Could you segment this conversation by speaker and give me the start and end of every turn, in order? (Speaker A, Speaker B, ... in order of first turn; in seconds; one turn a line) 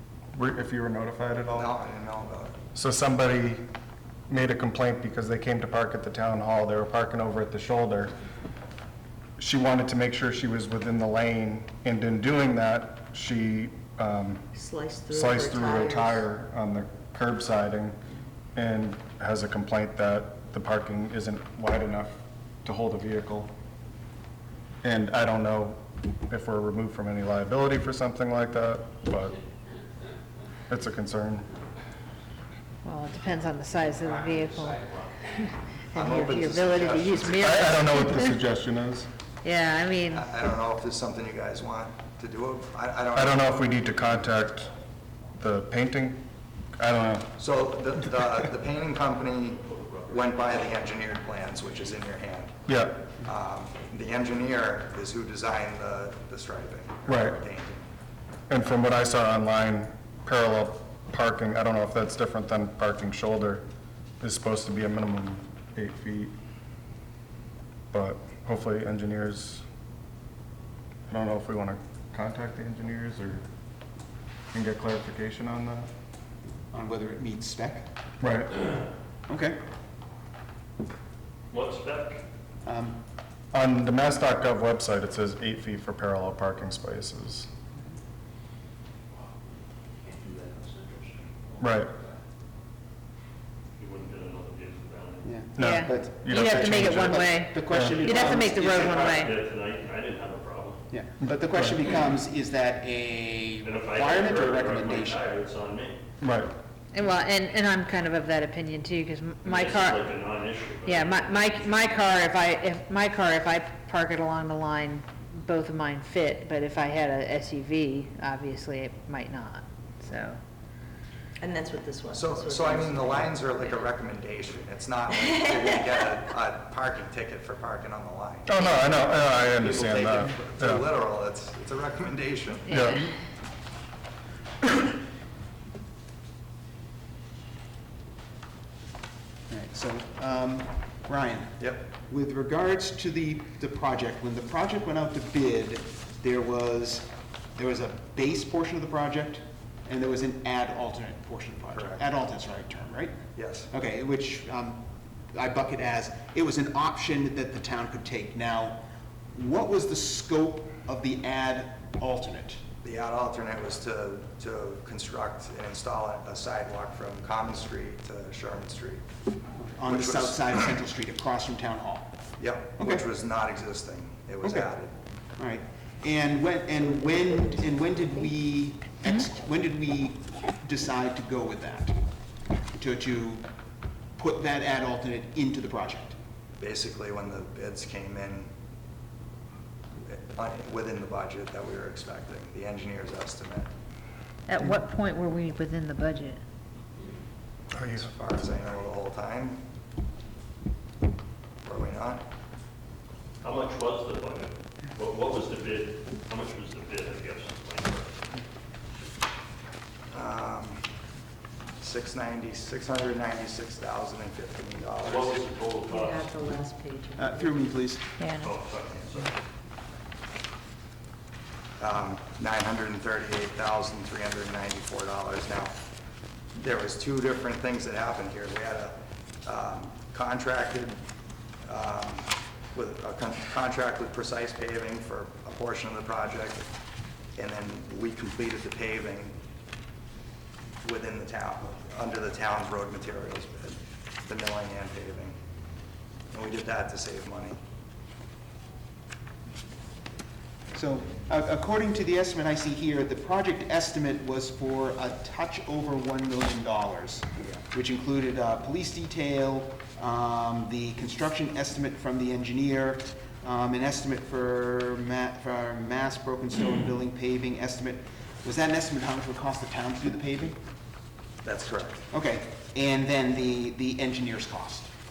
Speaker A: 0.3-1.7
Speaker B: 1.5-2.6
Speaker A: 2.7-3.6
Speaker A: 4.3-8.1
Speaker A: 9.4-14.4
Speaker C: 14.6-16.2
Speaker A: 15.1-18.0
Speaker A: 18.6-23.5
Speaker A: 24.8-29.4
Speaker A: 30.7-31.5
Speaker D: 32.8-38.4
Speaker C: 34.0-34.8
Speaker B: 35.9-37.5
Speaker A: 37.4-39.1
Speaker D: 39.4-40.2
Speaker B: 40.1-43.6
Speaker A: 43.1-44.7
Speaker A: 45.4-46.2
Speaker A: 46.8-47.4
Speaker B: 47.4-57.9
Speaker E: 49.8-50.5
Speaker A: 52.7-53.0
Speaker A: 57.1-57.4
Speaker A: 58.5-63.6
Speaker A: 64.2-66.3
Speaker A: 67.9-69.6
Speaker A: 71.1-73.5
Speaker A: 74.5-75.9
Speaker F: 76.7-77.9
Speaker A: 78.2-78.6
Speaker F: 79.3-79.6
Speaker E: 81.5-82.2
Speaker F: 82.6-83.0
Speaker A: 83.5-87.5
Speaker E: 90.0-91.2
Speaker A: 91.6-91.9
Speaker E: 93.8-95.4
Speaker F: 95.2-99.3
Speaker A: 95.6-98.1
Speaker D: 95.6-99.4
Speaker E: 98.1-100.8
Speaker F: 100.9-105.2
Speaker E: 103.6-106.0
Speaker A: 106.2-106.5
Speaker D: 106.9-110.2
Speaker E: 109.4-112.0
Speaker D: 110.8-120.4
Speaker C: 121.4-123.7
Speaker B: 122.1-132.8
Speaker A: 128.5-130.8
Speaker A: 132.7-133.1
Speaker D: 132.7-133.0
Speaker F: 139.5-158.8
Speaker B: 141.6-141.9
Speaker B: 151.7-152.0
Speaker B: 153.3-153.7
Speaker F: 159.3-162.7
Speaker B: 162.8-169.0
Speaker F: 169.6-172.2
Speaker B: 169.9-170.6
Speaker B: 172.4-175.0
Speaker F: 172.8-173.1
Speaker F: 174.4-174.7
Speaker F: 175.4-182.0
Speaker F: 182.7-183.5
Speaker F: 184.2-186.2
Speaker B: 186.6-188.5
Speaker B: 190.1-193.7
Speaker D: 194.5-196.4
Speaker A: 197.7-198.1
Speaker B: 197.9-199.6
Speaker B: 201.6-202.2
Speaker E: 203.4-208.3
Speaker B: 210.1-210.8
Speaker B: 211.8-215.4
Speaker E: 215.1-216.4
Speaker C: 215.9-217.6
Speaker F: 217.2-218.1
Speaker D: 218.2-218.5
Speaker E: 218.4-219.4
Speaker B: 221.8-225.8
Speaker B: 226.6-231.0
Speaker B: 231.7-236.7
Speaker B: 237.4-239.4
Speaker B: 240.8-245.3
Speaker B: 246.3-247.6
Speaker F: 250.7-270.6
Speaker B: 271.4-272.1
Speaker F: 272.1-274.9